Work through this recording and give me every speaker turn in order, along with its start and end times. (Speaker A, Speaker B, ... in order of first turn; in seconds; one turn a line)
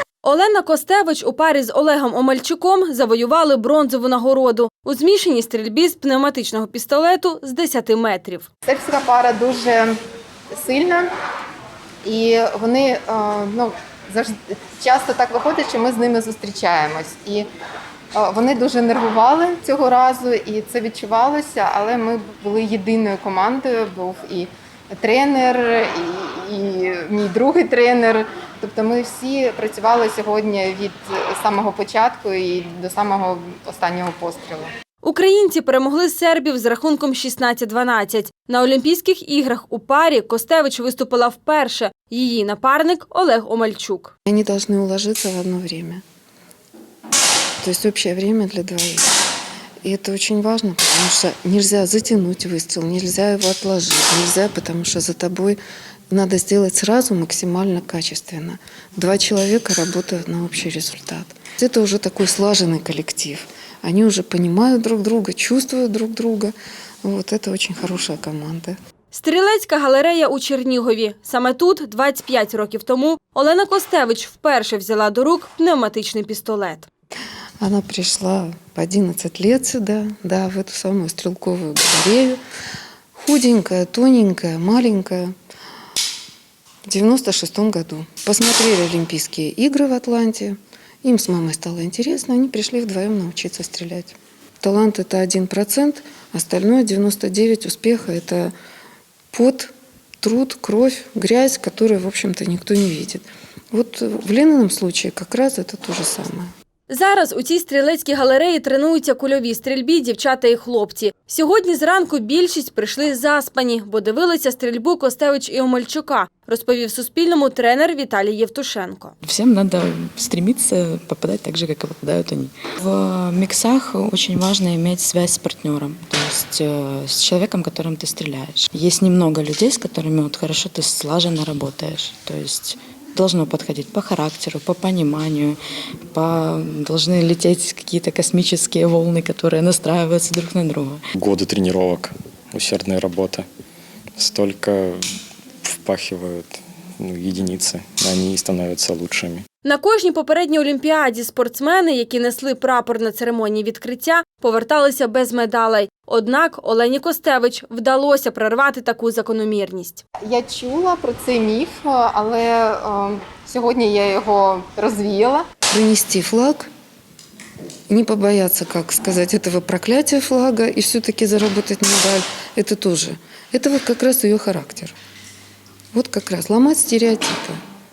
Speaker A: 0.2-8.5
Speaker B: 8.7-9.9
Speaker B: 10.5-11.1
Speaker B: 12.0-17.5
Speaker B: 18.1-34.7
Speaker A: 35.0-44.1
Speaker C: 44.2-46.0
Speaker C: 47.6-49.1
Speaker C: 49.8-55.6
Speaker C: 56.1-68.8
Speaker A: 69.1-76.9
Speaker C: 77.6-82.4
Speaker C: 83.1-85.3
Speaker C: 86.8-98.5
Speaker C: 99.3-106.5
Speaker A: 106.9-119.1
Speaker D: 119.2-135.6
Speaker D: 136.1-141.0
Speaker E: 141.1-143.5
Speaker E: 144.2-145.0
Speaker E: 145.6-149.4
Speaker A: 149.6-160.0
Speaker B: 160.2-165.5
Speaker C: 165.7-166.7
Speaker C: 167.9-174.9
Speaker C: 175.9-177.6